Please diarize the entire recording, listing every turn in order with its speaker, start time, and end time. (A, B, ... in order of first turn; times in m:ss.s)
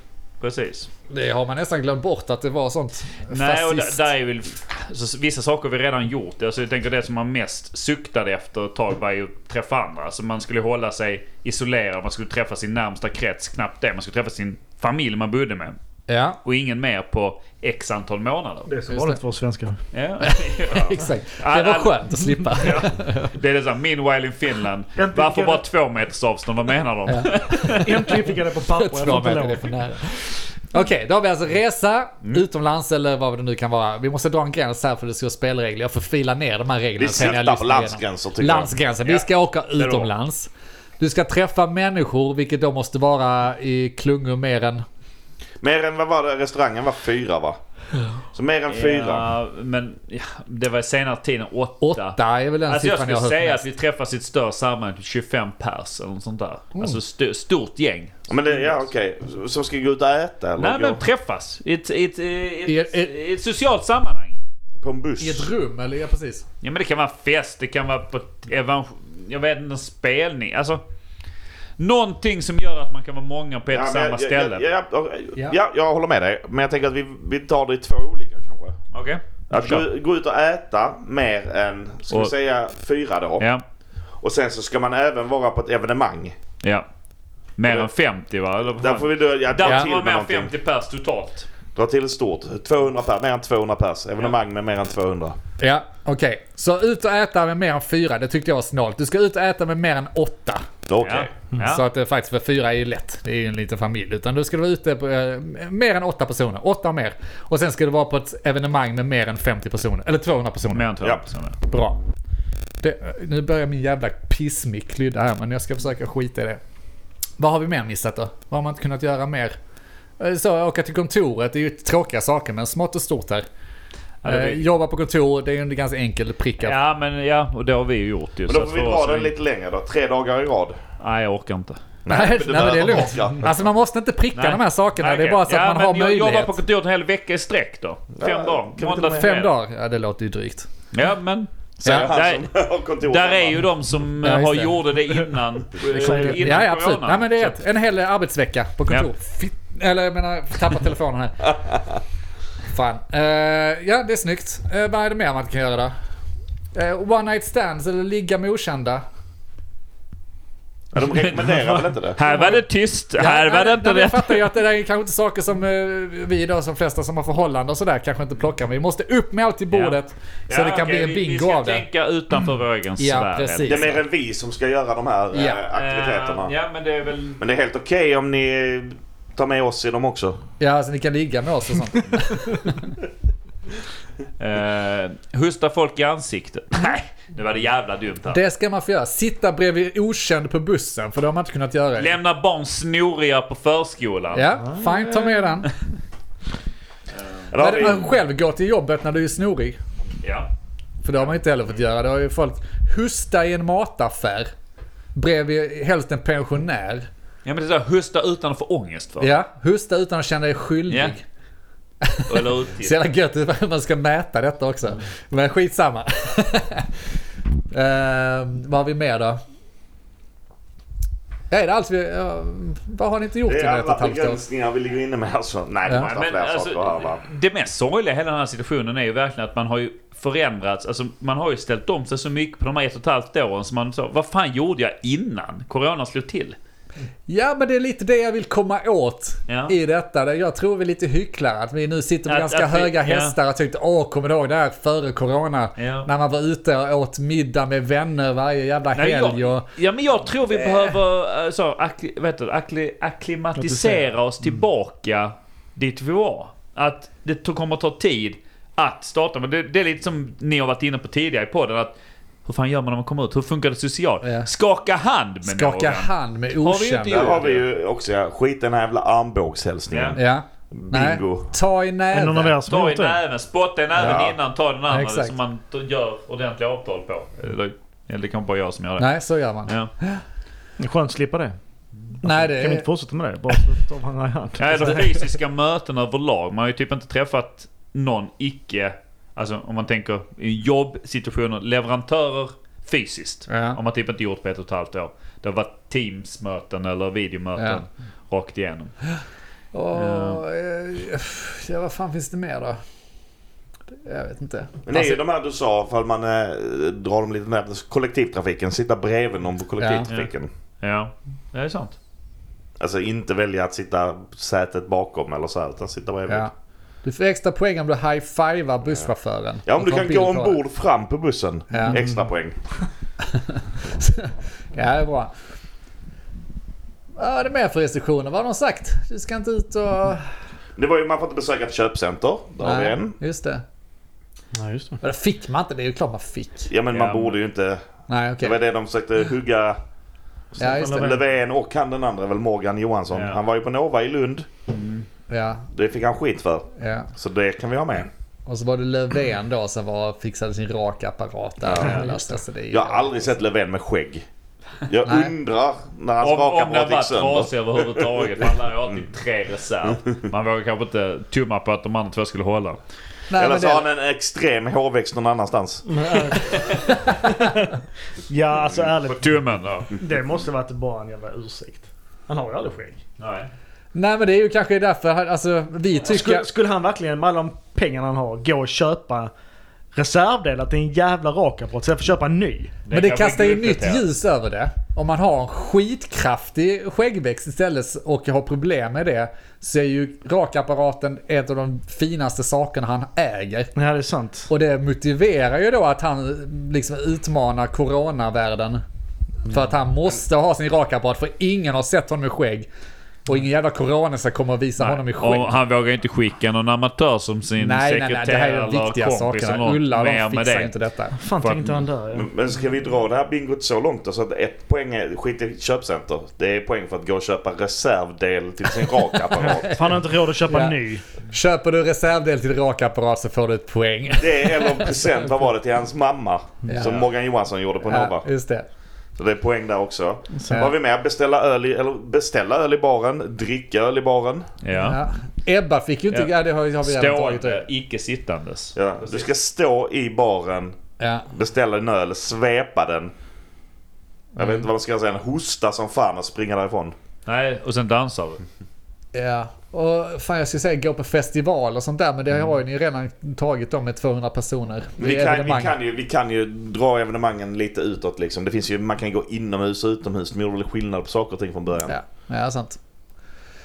0:00.4-0:00.9 A
0:01.1-0:04.1 B
0:03.3-0:15.8 A
0:16.1-0:16.4 B
0:16.4-0:18.7 A
0:18.7-0:19.8 C
0:18.9-0:19.2 B
0:19.9-0:22.2 A
0:20.2-0:23.3 B
0:22.6-0:22.9 C
0:22.8-0:28.1 A
0:25.0-0:25.6 C
0:27.1-0:27.8 B
0:27.8-0:29.7 C
0:28.8-0:44.8 B
0:37.0-0:38.7 D
0:39.0-0:40.1 A
0:45.6-0:47.6 D
0:48.3-0:49.3 D
0:48.7-0:58.7 A
0:51.8-0:53.6 B
0:58.3-1:01.0 D
1:00.6-1:04.4 A
1:02.6-1:03.1 B
1:04.8-1:05.5 D
1:05.2-1:06.4 B
1:06.6-1:10.8 A
1:11.8-1:14.6 A
1:13.7-1:18.8 D
1:18.9-1:19.8 A
1:19.5-1:23.4 D
1:24.2-1:26.3 D
1:26.6-1:26.9 A
1:27.6-1:31.5 A
1:28.8-1:30.5 D
1:29.6-1:29.9 B
1:31.7-1:35.4 D
1:35.6-1:40.7 B
1:40.9-1:41.3 D
1:41.0-1:41.8 A
1:41.6-1:50.9 B
1:50.7-1:51.6 A
1:51.6-1:52.0 B
1:52.8-1:56.6 B
1:57.4-1:59.6 B
2:00.2-2:03.4 B
2:04.2-2:04.6 A
2:04.2-2:06.8 B
2:06.6-2:09.3 A
2:08.4-2:10.8 D
2:11.0-2:11.8 A
2:12.0-2:13.6 D
2:12.1-2:16.6 B
2:14.3-2:19.5 A
2:18.2-2:19.0 D
2:18.8-2:20.7 B
2:20.9-2:22.5 A
2:21.8-2:23.7 D
2:21.8-2:22.1 B
2:23.0-2:27.6 A
2:24.2-2:24.8 B
2:25.9-2:31.6 B
2:25.9-2:26.6 C
2:32.6-2:35.9 B
2:36.7-2:39.0 B
2:40.9-2:42.2 D
2:41.0-2:44.4 A
2:42.2-2:42.6 B
2:43.1-2:51.8 B
2:49.7-2:54.0 A
2:53.0-2:54.0 B
2:53.6-2:56.5 D
2:55.3-2:55.6 B
2:55.7-2:57.4 A
2:57.4-3:00.4 D
3:00.6-3:02.9 B
3:04.4-3:08.4 A
3:08.3-3:12.2 B
3:12.0-3:14.5 A
3:14.3-3:15.7 B
3:14.7-3:15.4 C
3:17.2-3:17.5 A
3:17.5-3:18.2 D
3:17.5-3:19.8 B
3:20.2-3:20.5 A
3:21.0-3:24.5 B
3:25.1-3:27.1 B
3:27.4-3:29.3 A
3:29.2-3:31.2 B
3:30.9-3:31.1 A
3:32.0-3:37.1 B
3:32.2-3:33.0 A
3:37.7-3:39.4 B
3:41.5-3:44.4 B
3:43.5-3:47.2 D
3:45.9-3:56.6 A
3:57.3-4:09.7 B
3:59.5-3:59.7 A
4:02.2-4:03.4 A
4:05.8-4:06.1 A
4:08.9-4:27.6 A
4:10.5-4:10.9 B
4:13.6-4:14.1 C
4:24.2-4:24.5 B
4:25.4-4:27.4 B
4:27.1-4:31.5 D
4:29.9-4:30.2 A
4:30.1-4:32.6 B
4:32.1-4:33.2 C
4:32.7-4:39.1 A
4:34.0-4:34.3 D
4:34.0-4:34.2 B
4:34.9-4:35.3 B
4:39.0-4:40.2 B
4:39.6-4:39.9 A
4:40.8-4:41.6 C
4:42.2-4:45.1 C
4:42.2-4:42.8 B
4:44.6-4:59.0 A
4:53.5-4:53.8 B
4:57.6-4:57.8 B
4:59.7-5:02.8 B
4:59.9-5:00.4 A
5:03.9-5:05.2 B
5:04.8-5:10.5 D
5:09.8-5:10.1 B
5:10.8-5:12.0 A
5:12.8-5:16.5 D
5:17.0-5:20.6 B
5:19.6-5:22.6 D
5:21.7-5:22.0 B
5:21.8-5:22.3 C
5:23.2-5:25.3 B
5:27.2-5:30.3 B
5:30.8-5:33.1 D
5:32.6-5:33.6 B
5:34.5-5:35.0 C
5:35.0-5:36.7 B
5:36.7-5:37.8 D
5:36.9-5:37.4 A
5:38.1-5:38.6 B
5:38.4-5:39.8 D
5:40.6-5:41.2 C
5:40.6-5:41.2 B
5:40.7-5:44.5 D
5:43.1-5:43.4 A
5:44.7-5:45.0 A
5:45.3-5:45.6 B
5:45.7-5:48.1 D
5:46.8-5:47.1 B
5:48.4-5:53.4 B
5:51.6-5:52.2 D
5:51.7-5:52.2 A
5:52.7-5:54.2 D
5:54.8-5:58.4 D
5:55.0-5:55.3 B
5:56.2-6:02.8 A
6:03.3-6:03.8 B
6:03.4-6:05.8 D
6:05.8-6:07.7 C
6:06.4-6:07.2 A
6:08.3-6:09.4 C
6:09.1-6:09.9 A
6:09.9-6:13.0 C
6:13.2-6:13.5 A
6:13.9-6:16.4 B
6:16.0-6:19.3 C
6:19.9-6:22.7 C
6:22.8-6:24.0 A
6:22.9-6:33.7 B
6:33.8-6:34.5 C
6:34.5-6:38.8 B
6:39.4-6:42.7 B
6:43.2-6:45.5 B
6:44.8-6:50.7 A
6:47.6-6:51.2 B
6:51.2-6:52.3 C
6:51.4-6:51.8 A
6:52.1-6:59.8 D
6:59.4-6:59.9 B
6:59.4-7:01.0 C
7:00.5-7:05.0 B
7:04.2-7:08.3 D
7:06.7-7:07.0 B
7:06.8-7:07.1 A
7:07.8-7:08.6 B
7:09.2-7:14.5 D
7:10.3-7:10.6 C
7:10.5-7:10.7 B
7:14.6-7:15.0 A
7:14.8-7:17.7 B
7:16.8-7:19.3 A
7:18.7-7:20.8 D
7:21.0-7:21.3 B
7:21.3-7:23.1 D
7:24.3-7:26.9 D
7:27.3-7:28.4 A
7:29.1-7:35.8 B
7:35.0-7:41.9 D
7:41.8-7:42.8 B